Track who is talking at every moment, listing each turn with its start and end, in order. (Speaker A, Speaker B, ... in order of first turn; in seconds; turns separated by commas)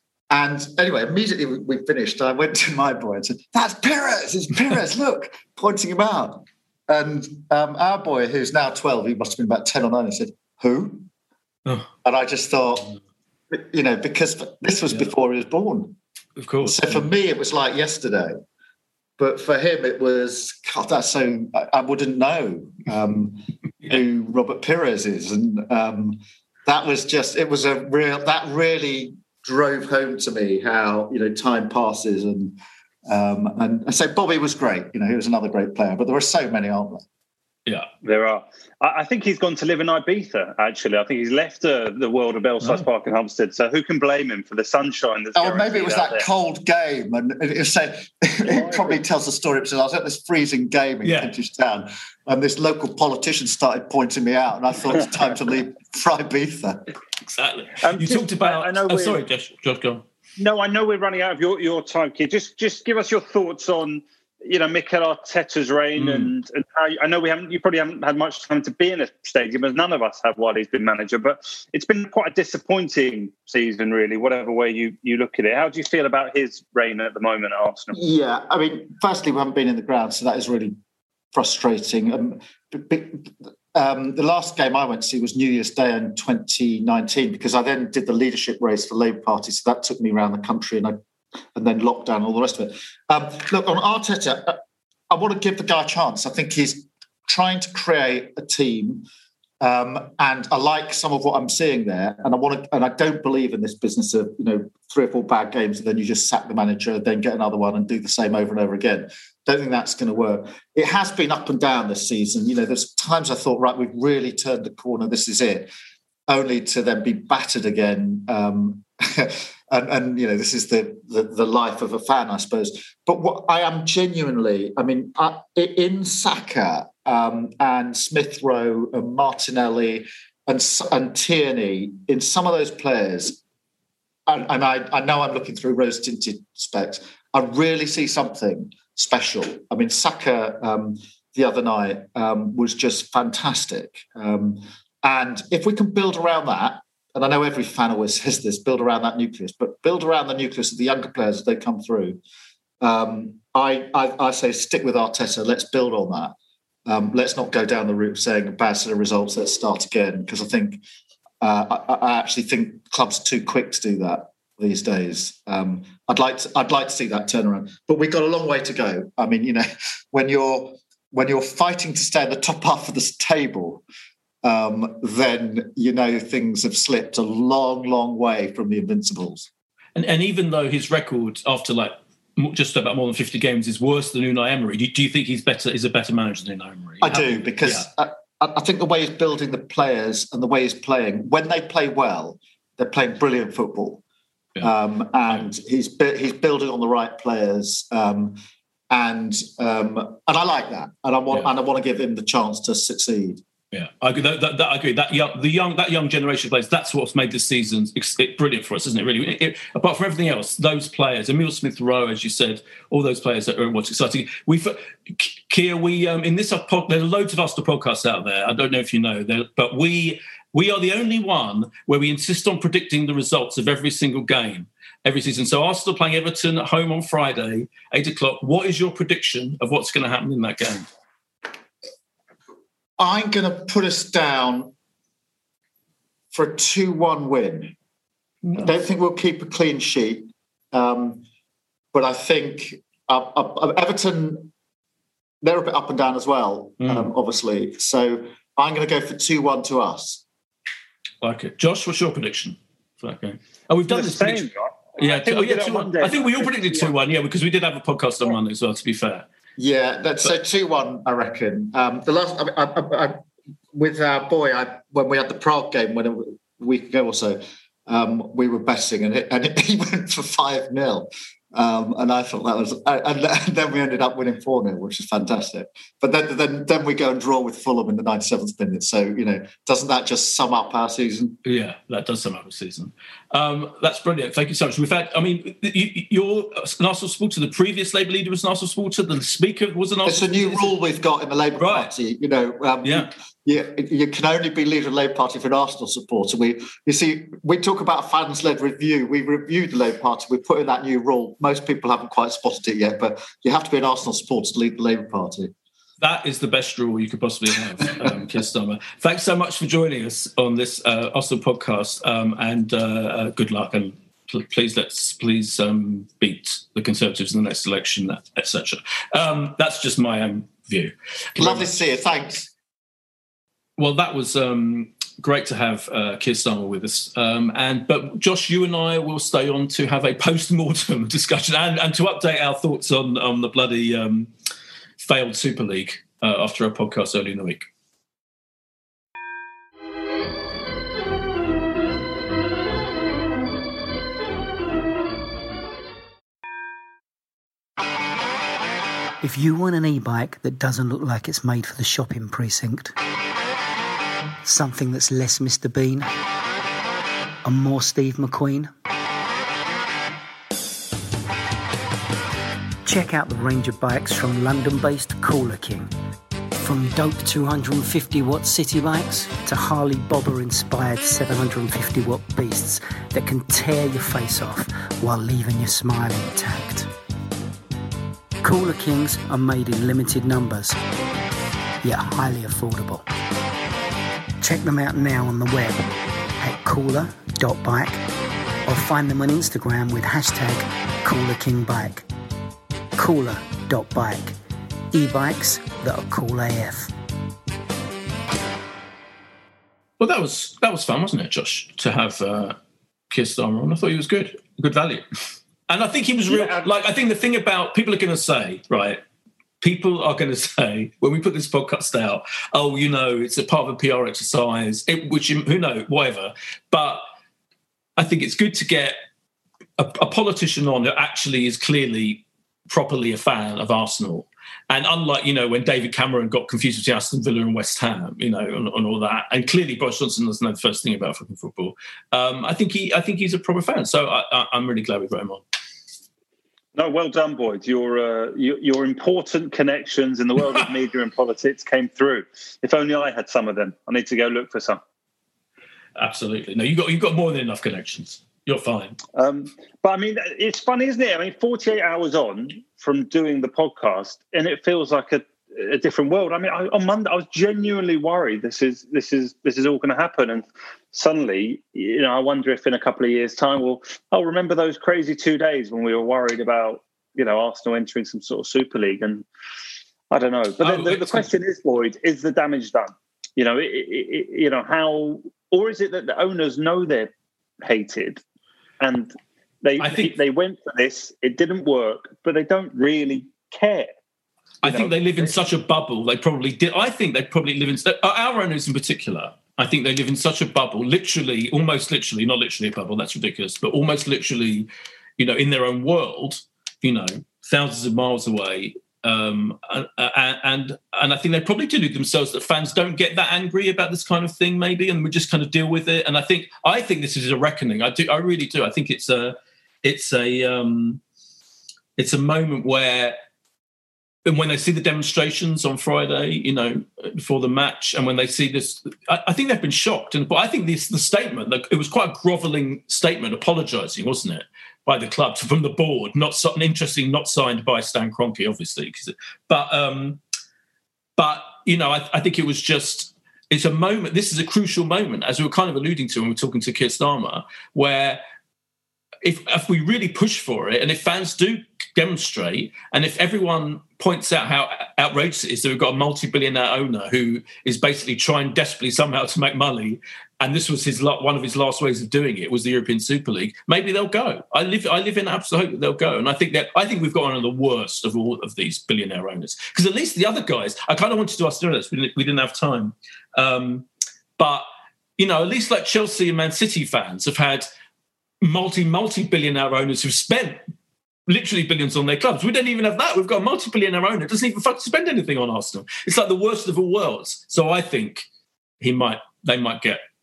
Speaker A: 0.3-11.1, Speaker A: 12.0-12.9, Speaker A: 13.5-16.0, Speaker B: 16.4-17.1, Speaker A: 16.6-18.4, Speaker A: 19.2-37.0, Speaker C: 38.0-46.2, Speaker A: 45.4-56.8, Speaker C: 48.5-49.0, Speaker B: 51.0-51.3, Speaker B: 57.4-60.0, Speaker C: 57.8-59.2, Speaker C: 60.4-78.0, Speaker B: 66.0-66.3, Speaker A: 77.9-80.8, Speaker A: 81.3-91.0, Speaker A: 91.5-94.6, Speaker A: 95.1-99.1, Speaker A: 99.6-115.7, Speaker A: 116.3-133.4, Speaker A: 134.3-152.2, Speaker A: 152.8-156.3, Speaker A: 156.9-160.8, Speaker A: 161.4-173.8, Speaker A: 174.4-179.5, Speaker B: 180.0-187.9, Speaker A: 187.0-194.0, Speaker A: 194.6-198.4, Speaker A: 198.9-203.4, Speaker B: 203.7-230.9, Speaker A: 233.0-234.7, Speaker A: 236.3-237.8, Speaker B: 238.4-238.7, Speaker A: 238.6-241.2, Speaker A: 241.9-244.5, Speaker A: 245.4-250.2, Speaker B: 246.8-247.1, Speaker B: 251.2-259.3, Speaker C: 253.9-256.9, Speaker A: 259.6-263.2, Speaker A: 263.7-281.4, Speaker B: 281.4-290.8, Speaker A: 290.1-305.5, Speaker B: 291.6-291.9, Speaker B: 292.8-293.1, Speaker B: 306.0-321.8, Speaker A: 321.4-322.5, Speaker B: 323.8-334.3, Speaker B: 335.0-337.7, Speaker D: 349.2-352.9, Speaker D: 354.4-356.1, Speaker D: 357.4-358.7, Speaker D: 362.9-365.9, Speaker D: 366.6-376.9, Speaker D: 378.4-380.8, Speaker D: 381.8-383.1, Speaker D: 384.4-385.9, Speaker D: 386.4-388.0, Speaker D: 388.7-392.1, Speaker D: 393.0-394.4, Speaker D: 394.9-396.9, Speaker B: 400.0-402.6, Speaker B: 403.1-405.1, Speaker B: 405.7-409.0, Speaker B: 409.6-417.0, Speaker B: 418.0-419.0, Speaker B: 419.8-435.4, Speaker C: 436.8-444.8, Speaker B: 446.0-449.0, Speaker C: 449.1-469.2, Speaker C: 470.1-478.2, Speaker B: 470.6-471.3, Speaker C: 478.8-483.9, Speaker B: 479.8-480.2, Speaker B: 484.6-511.0, Speaker C: 484.6-485.3, Speaker B: 512.0-513.2, Speaker B: 514.3-530.2, Speaker B: 531.2-538.2, Speaker B: 539.2-563.9, Speaker B: 564.4-564.7, Speaker B: 565.2-567.7, Speaker B: 568.4-570.6, Speaker B: 571.3-578.3, Speaker B: 578.8-580.0